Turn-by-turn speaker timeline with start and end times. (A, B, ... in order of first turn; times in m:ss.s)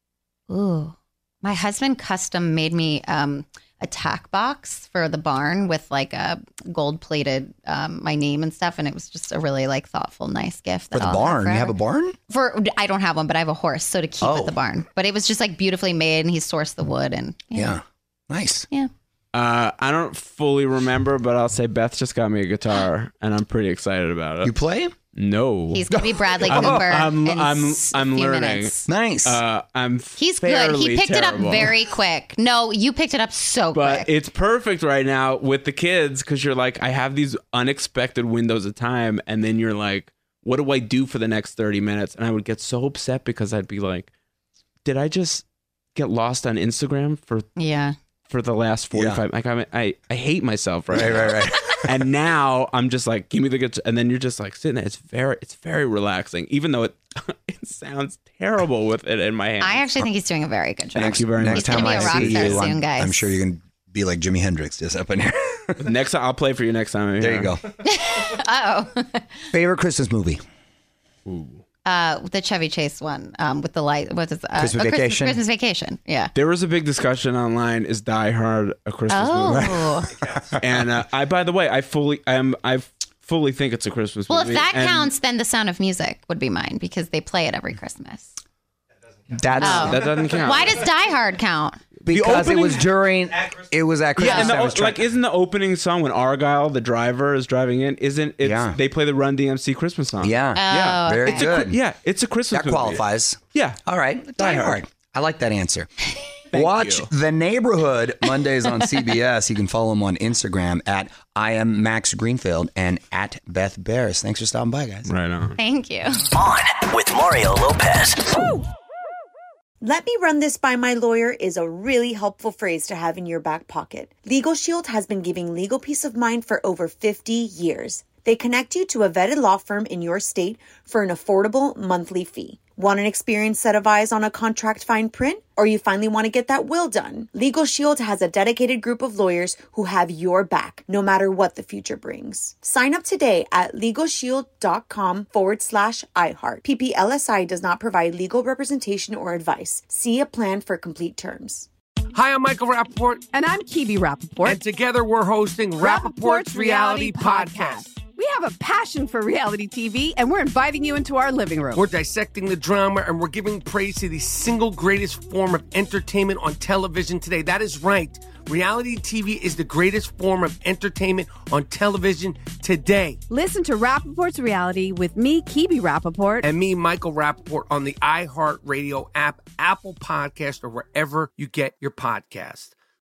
0:00.5-0:11.8 A
0:10.9-0:12.2 B
0:12.3-0:17.8 A
0:14.2-0:14.6 B
0:17.5-0:18.7 B
0:19.3-0:24.5 C
0:24.4-0:24.9 B
0:25.1-0:25.8 C
0:25.7-0:28.9 A
0:25.9-0:27.1 B
0:26.4-0:31.8 C
0:28.9-0:29.4 B
0:30.2-0:34.1 A
0:33.7-0:44.1 C
0:44.8-0:47.5 C
0:47.6-0:47.9 A
0:48.3-0:59.9 C
0:48.9-0:49.2 B
0:50.9-0:51.9 B
0:59.6-1:03.3 A
1:00.9-1:02.7 C
1:01.0-1:05.8 B
1:05.8-1:07.6 C
1:07.2-1:07.6 B
1:07.8-1:09.4 A
1:09.5-1:10.4 B
1:11.2-1:11.6 C
1:11.8-1:16.3 A
1:14.6-1:15.4 B
1:16.3-1:25.1 C
1:19.1-1:20.1 A
1:24.3-1:28.4 A
1:29.3-1:30.2 B
1:29.6-1:30.7 C
1:29.6-1:31.8 A
1:32.0-1:35.1 B
1:32.1-1:32.8 C
1:34.2-1:43.0 C
1:34.2-1:34.5 A
1:38.4-1:38.8 B
1:40.2-1:41.8 B
1:40.5-1:41.5 A
1:42.5-1:45.9 B
1:44.4-1:44.8 C
1:46.5-1:47.1 C
1:46.5-1:55.1 B
1:55.0-1:55.6 C
1:55.6-1:56.3 A
1:56.4-1:58.3 D
1:59.8-2:31.7 E
2:32.1-2:33.3 F
2:33.3-2:34.6 G
2:34.4-2:38.0 F
2:35.8-2:41.8 G
2:41.7-2:53.2 F
2:53.3-2:56.4 G
2:56.4-3:02.7 F